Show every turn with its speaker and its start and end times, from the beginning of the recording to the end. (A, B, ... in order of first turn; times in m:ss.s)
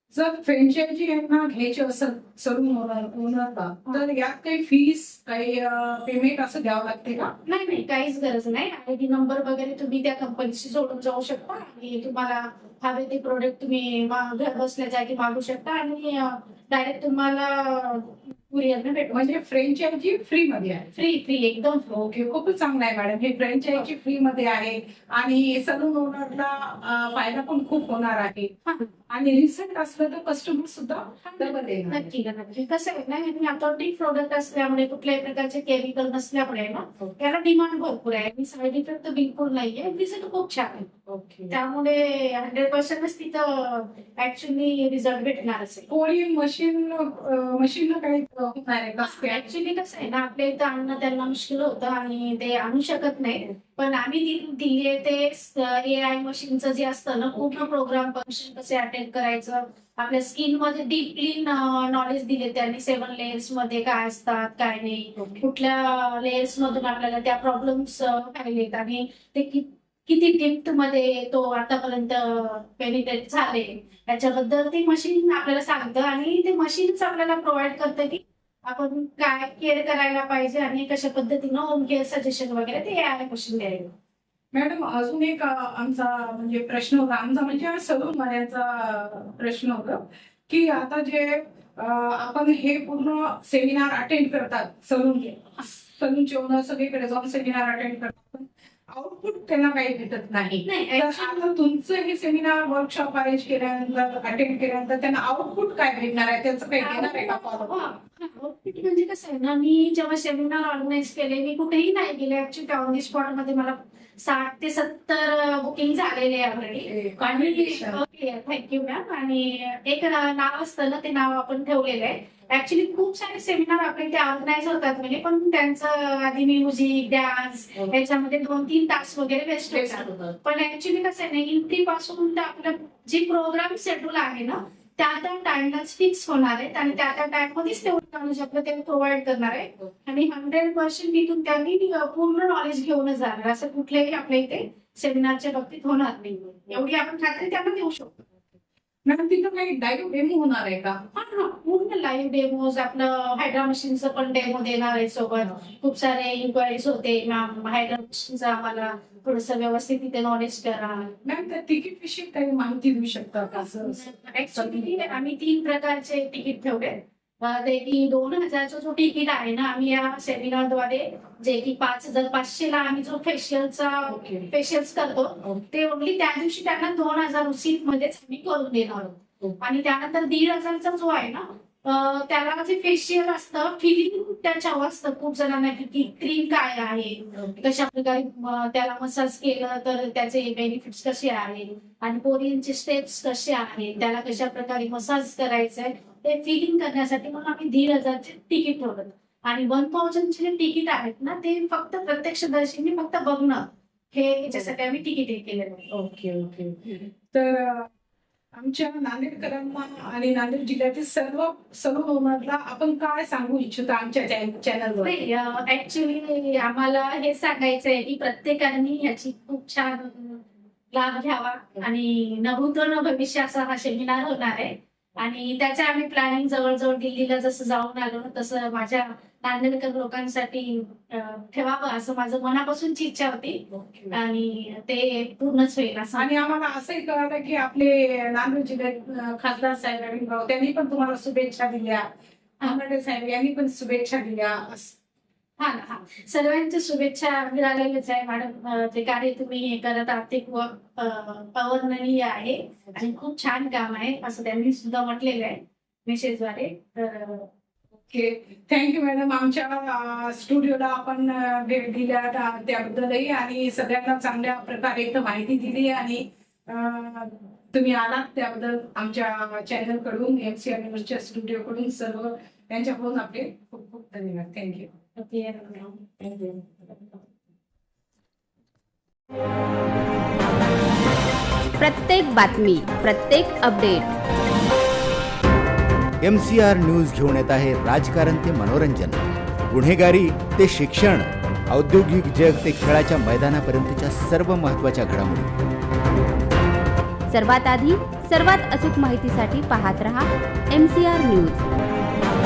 0:00.1-0:07.3 A
0:07.4-0:19.3 B
0:19.1-0:20.9 A
0:21.0-0:22.0 B
0:21.9-0:28.5 A
0:28.6-0:28.9 B
0:29.1-0:32.1 A
0:31.2-0:40.9 B
0:41.1-0:41.5 A
0:41.5-0:45.9 B
0:45.9-0:49.5 A
0:49.0-1:23.9 B
0:57.4-0:57.7 A
1:05.2-1:05.5 A
1:24.5-1:47.7 A
1:40.6-1:41.6 B
1:46.8-2:28.2 B
1:56.9-1:58.0 A
2:09.7-2:10.4 A
2:29.1-2:31.0 A
2:31.1-2:41.2 B
2:41.2-2:45.1 A
2:43.5-3:25.8 B
2:54.1-2:54.5 A
3:25.9-3:27.9 A
3:28.5-3:35.1 A
3:35.0-3:56.3 B
3:53.7-3:54.2 A
3:56.2-4:02.1 A
4:02.6-4:05.0 A
4:05.6-4:17.5 B
4:18.0-4:34.9 A
4:35.2-4:36.2 B
4:36.2-4:36.7 A
4:41.8-4:44.1 C
4:46.2-4:55.5 D
4:57.3-5:01.6 C